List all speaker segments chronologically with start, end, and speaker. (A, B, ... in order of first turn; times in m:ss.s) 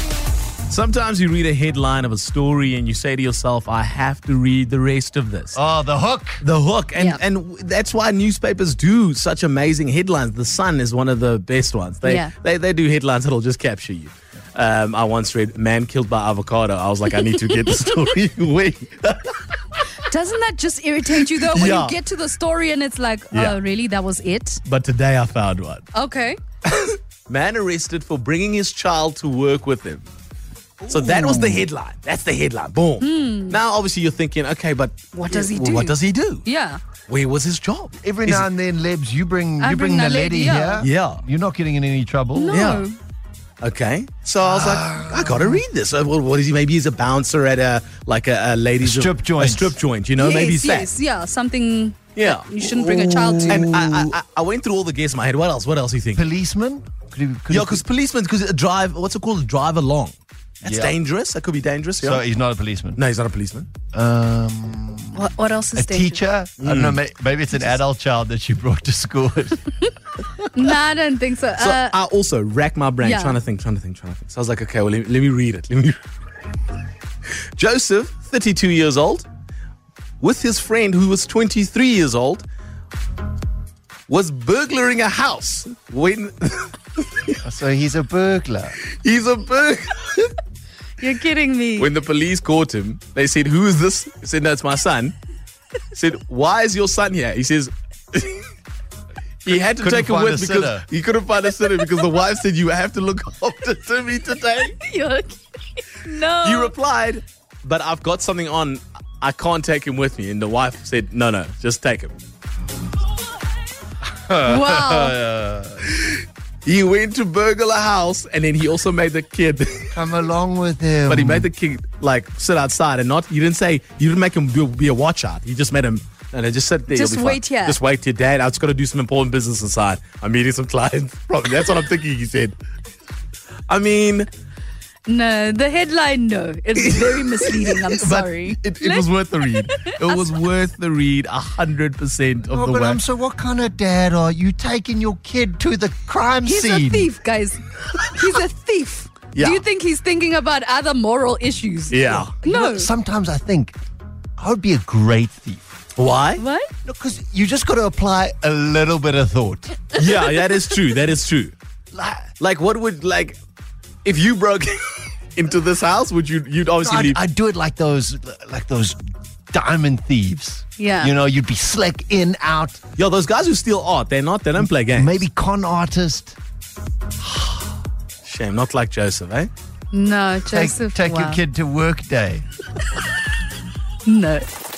0:00.7-0:05.6 A
0:05.5-0:06.4 B
0:06.4-0:19.8 A
0:07.0-0:07.2 C
0:12.0-0:12.3 C
0:20.1-0:24.6 C
0:21.1-0:22.0 A
0:23.3-0:23.6 A
0:24.6-0:25.8 A
0:25.9-0:26.4 C
0:26.7-0:30.1 A
0:30.8-0:31.7 B
0:30.9-0:36.4 A
0:33.0-0:33.6 C
0:35.1-0:36.8 C
0:37.1-0:38.5 A
0:38.0-0:42.7 B
0:39.6-0:40.8 C
0:40.8-0:41.2 A
0:42.3-0:43.0 C
0:42.5-0:42.9 A
0:43.6-0:50.9 A
0:44.4-0:45.6 B
0:48.8-0:49.8 B
0:50.2-0:53.8 C
0:52.2-0:52.5 A
0:52.6-0:54.1 B
0:53.4-0:56.2 A
0:56.1-0:57.8 B
0:57.5-1:02.2 A
1:00.6-1:01.0 B
1:02.0-1:03.0 B
1:03.0-1:03.7 A
1:03.9-1:09.7 B
1:05.2-1:06.2 C
1:06.6-1:07.0 A
1:10.6-1:12.0 C
1:11.6-1:16.0 A
1:13.0-1:13.4 C
1:17.6-1:19.3 A
1:20.2-1:22.4 A
1:24.1-1:27.4 A
1:27.4-1:28.8 B
1:28.8-1:30.3 A
1:31.0-1:31.9 C
1:31.8-1:35.1 A
1:35.9-1:38.5 A
1:39.4-1:44.7 A
1:39.5-1:40.9 B
1:44.6-1:46.7 C
1:46.4-1:52.2 A
1:54.2-1:55.8 B
1:54.5-1:55.1 C
1:55.8-2:00.0 A
1:59.9-2:01.5 B
2:01.0-2:12.6 A
2:06.9-2:07.8 C
2:13.7-2:14.3 A
2:15.1-2:20.4 C
2:17.2-2:23.0 A
2:22.5-2:27.1 B
2:26.4-2:32.9 C
2:29.3-2:29.6 A
2:31.9-2:32.4 A
2:32.4-2:33.8 B
2:34.4-2:35.6 B
2:36.0-2:36.4 A
2:36.4-2:36.7 C
2:36.8-2:39.9 B
2:40.0-2:41.5 A
2:40.0-2:40.7 C
2:41.9-2:42.3 B
2:42.4-2:43.4 A
2:44.0-2:47.2 A
2:46.8-2:49.0 B
2:49.5-2:52.8 B
2:50.8-2:51.1 C
2:53.0-2:55.2 A
2:54.6-2:56.4 B
2:58.2-2:59.5 A
2:59.9-3:01.4 C
3:00.5-3:02.4 B
3:04.1-3:04.4 C